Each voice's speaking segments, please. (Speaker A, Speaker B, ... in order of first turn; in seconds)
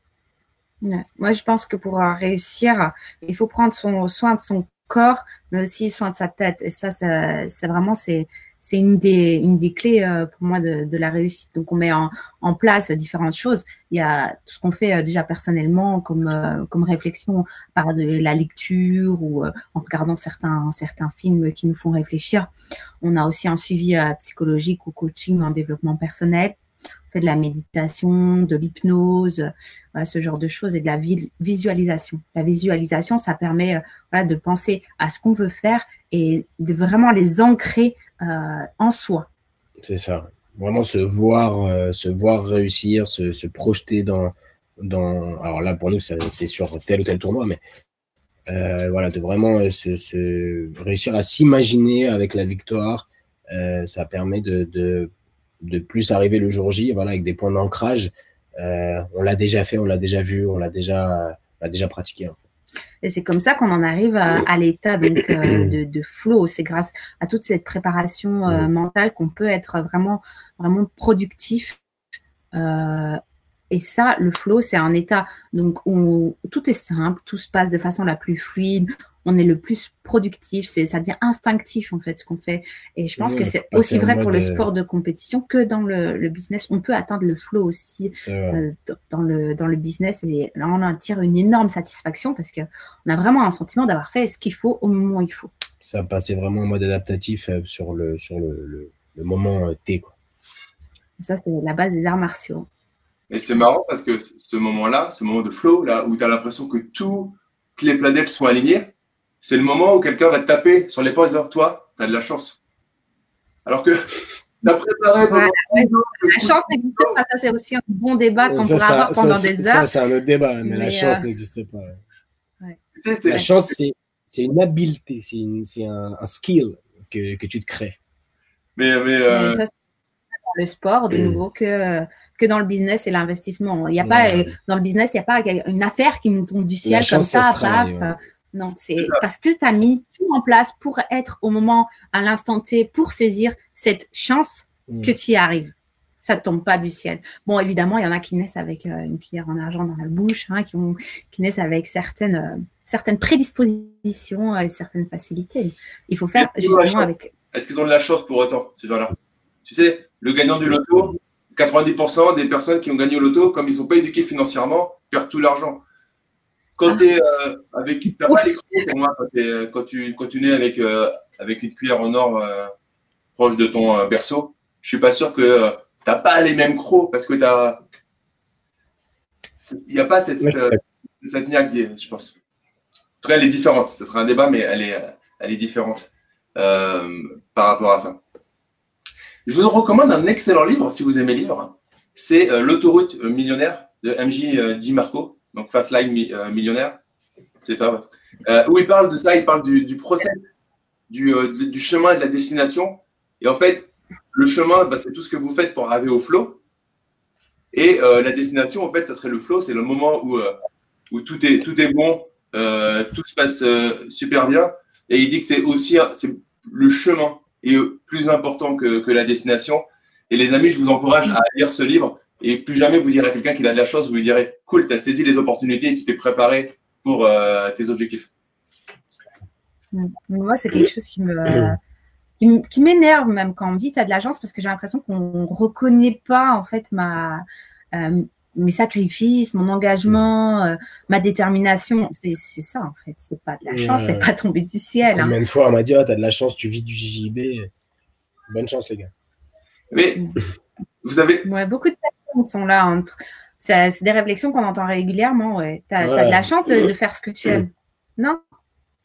Speaker A: 0.8-22.5, 23.0-26.6, 27.1-39.3, 63.0-71.8, 72.5-73.2, 73.7-95.5, 101.2-102.7, 103.5-103.8, 115.2-119.9, 120.6-121.3, 129.3-129.7, 130.4-157.3, 229.9-231.8, 232.4-245.3, 251.4-258.4
Speaker B: 39.8-47.6, 48.5-55.1, 55.6-62.4, 65.5-65.8, 83.2-84.7, 88.1-88.6, 95.8-100.1, 118.5-122.0, 123.3-128.0, 131.1-131.4, 134.0-134.5, 136.8-138.1, 144.9-145.1, 180.4-180.7, 243.7-244.3, 245.0-247.7, 248.5-249.1, 256.0-256.9
Speaker C: 103.3-108.9, 109.4-112.6, 113.7-117.2, 122.9-123.7, 128.8-129.6, 156.3-165.8, 166.8-172.7, 173.3-177.8, 179.6-182.3, 183.2-188.2, 189.4-197.0, 197.7-200.4, 201.1-206.6, 207.7-210.5, 211.1-228.3, 249.9-250.2, 251.0-251.4